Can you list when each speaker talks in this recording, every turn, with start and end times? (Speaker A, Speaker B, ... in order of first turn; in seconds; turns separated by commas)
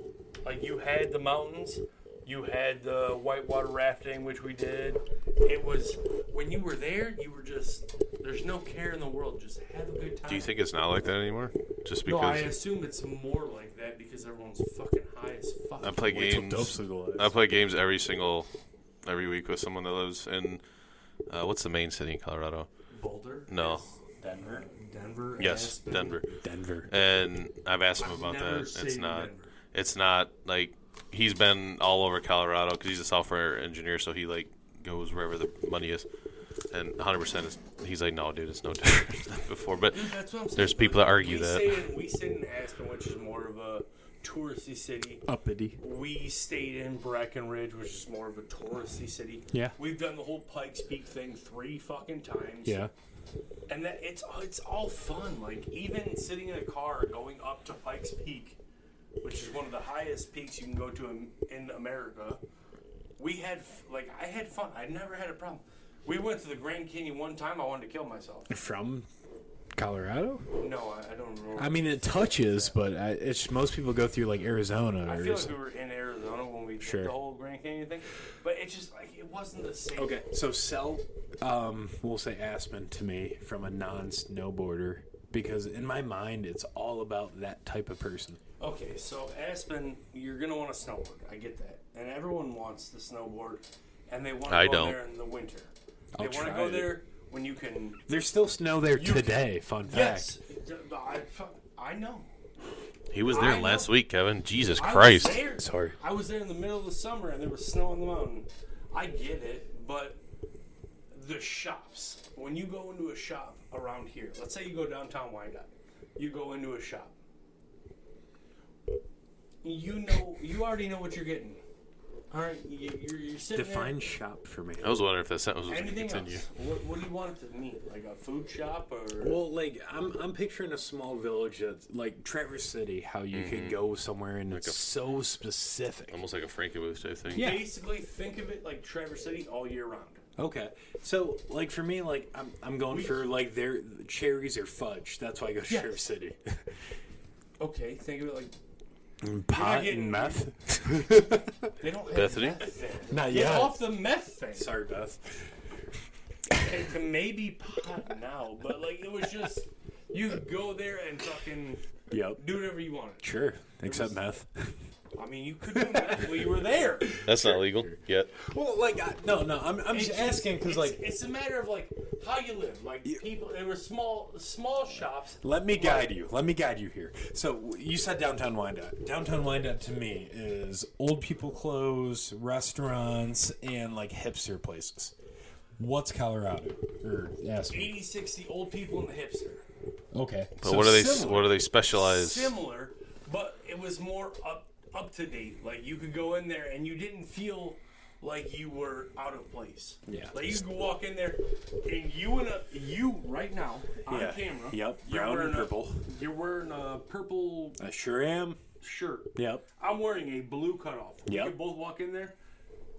Speaker A: 0.4-10.5, Speaker B: 10.3-12.5, Speaker A: 12.1-16.1, Speaker B: 15.8-18.5, Speaker C: 16.0-17.3, Speaker B: 19.0-20.6, Speaker B: 21.3-22.7, Speaker A: 22.9-26.2, Speaker B: 23.5-23.8, Speaker C: 24.2-24.6, Speaker B: 25.4-26.3, Speaker C: 26.3-26.9, Speaker B: 26.9-36.1, Speaker A: 28.0-29.5, Speaker B: 36.7-41.8, Speaker A: 39.9-45.2, Speaker C: 45.3-45.8, Speaker A: 45.8-52.8, Speaker C: 52.6-52.9, Speaker A: 53.7-58.6, Speaker A: 59.2-62.4, Speaker A: 63.2-68.5, Speaker C: 68.5-69.1, Speaker C: 69.7-70.5, Speaker A: 70.6-72.8, Speaker C: 71.5-75.5, Speaker A: 75.0-80.2, Speaker C: 76.8-77.2, Speaker C: 80.0-88.4, Speaker A: 88.6-98.0, Speaker B: 94.5-95.0, Speaker C: 96.1-97.0, Speaker C: 98.1-100.3, Speaker A: 98.9-102.3, Speaker B: 103.1-105.4, Speaker A: 103.2-103.9, Speaker A: 104.8-110.2, Speaker C: 105.6-106.0, Speaker A: 111.1-117.2, Speaker A: 119.6-121.6, Speaker A: 122.3-124.1, Speaker C: 123.5-125.0, Speaker B: 124.8-126.4, Speaker A: 125.7-129.4, Speaker C: 129.2-136.2, Speaker B: 133.3-133.8, Speaker B: 134.5-134.9, Speaker B: 136.1-137.5, Speaker A: 137.3-140.2, Speaker C: 137.3-137.7, Speaker C: 140.4-146.7, Speaker A: 142.9-143.2, Speaker A: 145.7-146.0, Speaker A: 147.6-148.5, Speaker C: 149.2-151.7, Speaker A: 149.5-150.4, Speaker A: 151.8-154.7, Speaker B: 152.1-152.7, Speaker C: 153.1-153.9, Speaker C: 154.5-155.5, Speaker A: 156.6-161.8, Speaker C: 162.1-162.4, Speaker A: 162.3-163.3, Speaker C: 163.2-164.7, Speaker A: 163.8-164.2, Speaker A: 165.2-167.2, Speaker C: 165.7-171.0, Speaker B: 167.2-168.3, Speaker A: 169.9-176.1, Speaker C: 175.4-185.1, Speaker C: 185.8-187.9, Speaker A: 187.7-189.6, Speaker C: 190.1-191.6, Speaker B: 190.6-192.5, Speaker A: 191.9-207.8, Speaker C: 200.1-200.6, Speaker C: 204.1-206.0, Speaker C: 207.8-208.6, Speaker A: 208.8-212.4, Speaker C: 209.3-209.7, Speaker C: 211.2-211.6